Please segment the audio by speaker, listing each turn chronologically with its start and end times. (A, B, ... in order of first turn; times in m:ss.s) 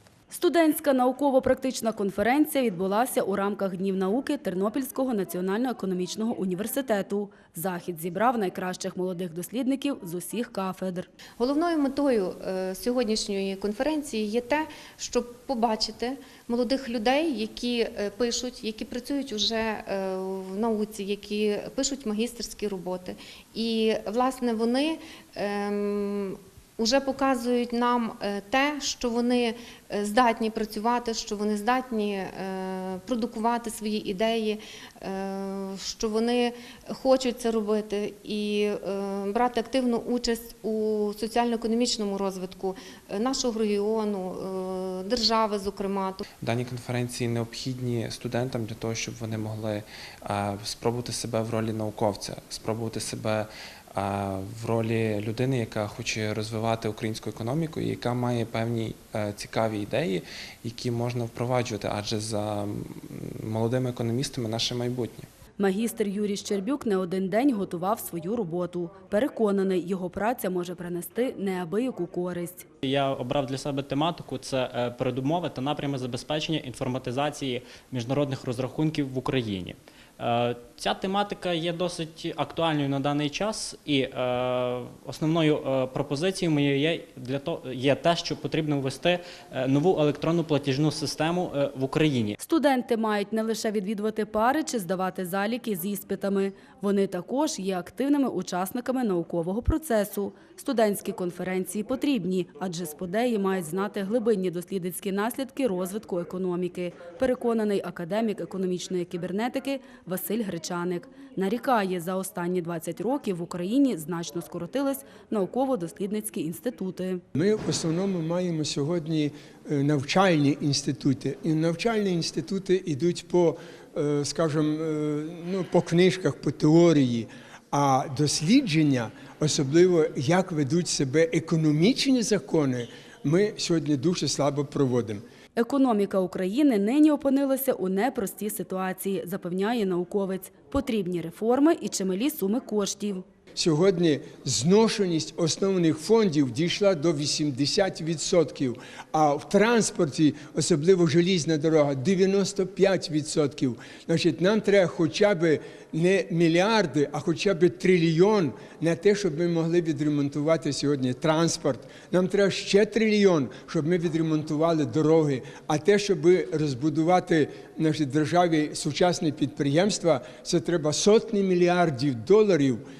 0:00.3-0:11.1 A
0:11.4-0:46.2 B
0:46.4-1:05.3 C
1:05.6-1:12.6 A
1:12.8-1:32.4 D
1:32.4-1:57.2 A
1:57.3-2:15.2 E
2:15.6-2:23.2 A
2:23.6-2:52.8 E